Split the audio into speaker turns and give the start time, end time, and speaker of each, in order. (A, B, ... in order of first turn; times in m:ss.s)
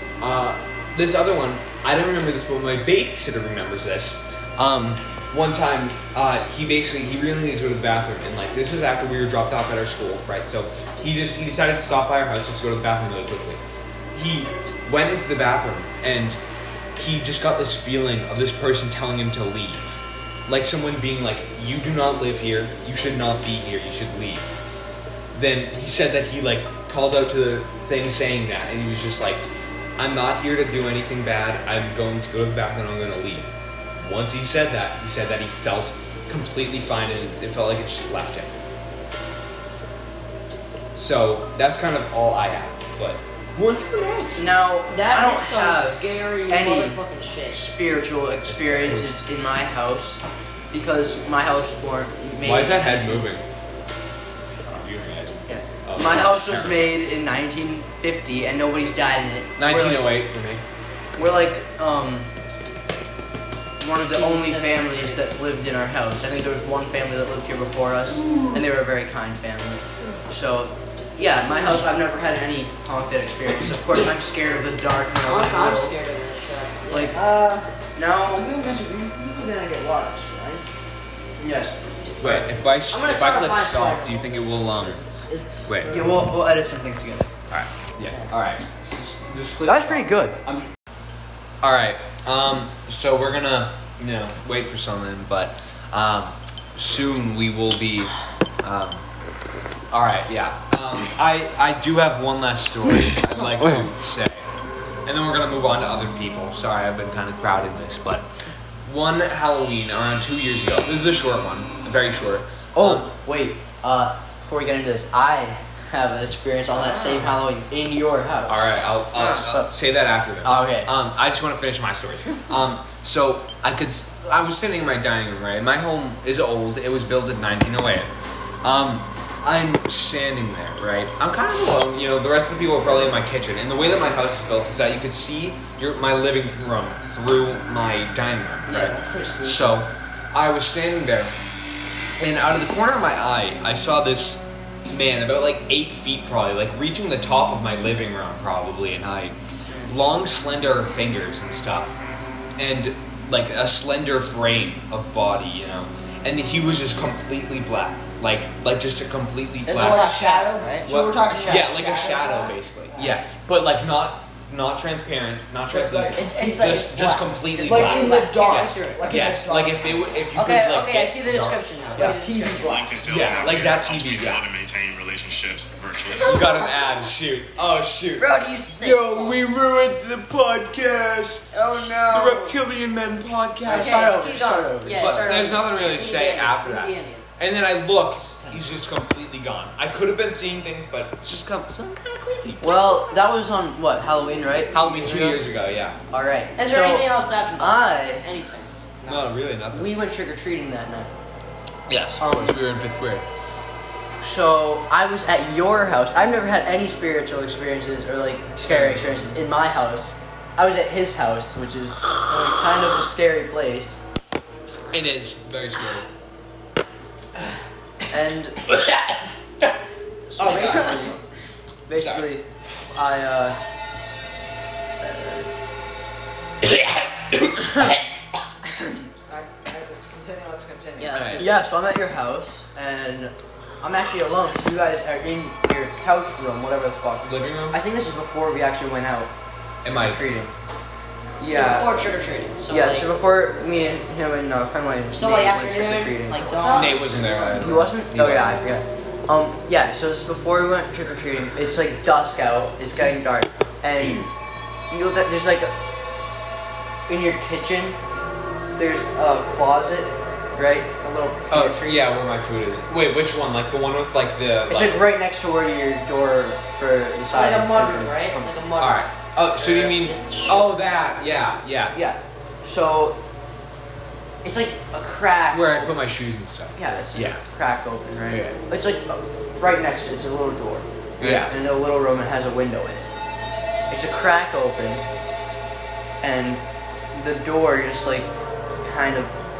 0:00.2-0:16.4 A
0:17.0-0:24.5 A
0:25.3-0:29.4 A
0:30.0-0:38.5 A
0:40.9-0:44.5 A
0:44.4-0:47.0 B
0:44.9-0:47.7 C
0:47.5-0:53.3 B
0:48.4-0:49.2 A
0:52.4-0:53.4 A
0:54.6-0:57.1 A
0:55.5-1:00.1 B
0:59.6-1:00.6 A
1:01.2-1:02.3 B
1:03.8-1:15.9 B
1:04.1-1:05.2 C
1:08.2-1:08.5 A
1:15.2-1:17.2 C
1:16.9-1:17.2 B
1:17.1-1:17.7 D
1:17.9-1:18.4 B
1:18.3-1:20.6 D
1:21.4-1:22.4 B
1:22.2-1:25.0 A
1:22.9-1:25.7 C
1:25.6-1:26.0 A
1:25.8-1:27.3 B
1:27.5-1:30.7 A
1:29.6-1:30.4 B
1:31.6-1:39.0 A
1:39.9-1:44.4 A
1:45.0-1:48.2 A
1:48.8-1:53.1 A
1:52.7-1:59.7 B
1:56.7-1:57.2 C
1:58.5-2:08.1 A
2:00.4-2:00.9 B
2:08.6-2:21.4 A
2:18.7-2:19.8 D
2:22.2-2:32.0 A
2:32.6-2:40.1 A
2:39.6-2:40.9 C
2:39.7-2:43.2 D
2:40.8-2:52.1 A
2:45.7-2:46.9 D
2:46.1-2:49.2 C
2:47.6-2:50.2 D
2:50.3-2:53.0 C
2:51.9-2:53.5 D
2:52.6-2:56.6 E
2:53.1-2:54.4 A
2:56.2-2:56.6 C
2:56.2-3:04.4 A
2:58.2-2:59.4 C
3:01.5-3:02.6 C
3:03.6-3:05.3 B
3:03.6-3:07.4 C
3:05.0-3:13.0 A
3:08.2-3:08.7 D
3:12.6-3:15.4 B
3:14.7-3:16.0 A
3:16.1-3:18.2 B
3:16.6-3:18.7 C
3:19.0-3:19.9 A
3:19.7-3:21.1 B
3:21.9-3:23.2 A
3:22.2-3:22.6 B
3:24.2-3:34.0 B
3:28.6-3:29.4 A
3:34.9-3:36.1 A
3:38.1-3:38.6 B
3:40.3-3:41.2 B
3:40.4-3:41.0 A
3:40.5-3:41.0 C
3:41.9-3:43.6 B
3:42.0-3:42.3 A
3:45.0-3:45.4 B
3:47.6-3:47.9 B
3:48.7-3:49.0 B
3:49.3-3:51.4 D
3:51.0-3:51.6 C
3:51.1-3:51.5 A
3:51.4-3:59.3 B
3:57.2-3:57.8 A
3:59.8-4:00.2 A
3:59.9-4:00.5 B
4:01.4-4:02.0 B
4:01.4-4:03.1 C
4:02.7-4:14.3 B
4:05.1-4:07.7 C
4:06.7-4:08.6 A
4:14.9-4:15.7 B
4:17.1-4:18.0 B
4:18.8-4:22.0 B
4:21.5-4:25.0 A
4:24.7-4:28.6 B
4:27.3-4:30.7 C
4:28.8-4:32.0 A
4:31.9-4:33.2 B
4:34.4-4:35.9 B
4:35.5-4:37.4 A
4:36.8-4:43.0 B
4:38.3-4:38.6 A
4:41.2-4:41.5 A
4:43.9-4:45.0 B
4:46.2-4:48.3 B
4:48.8-4:49.3 B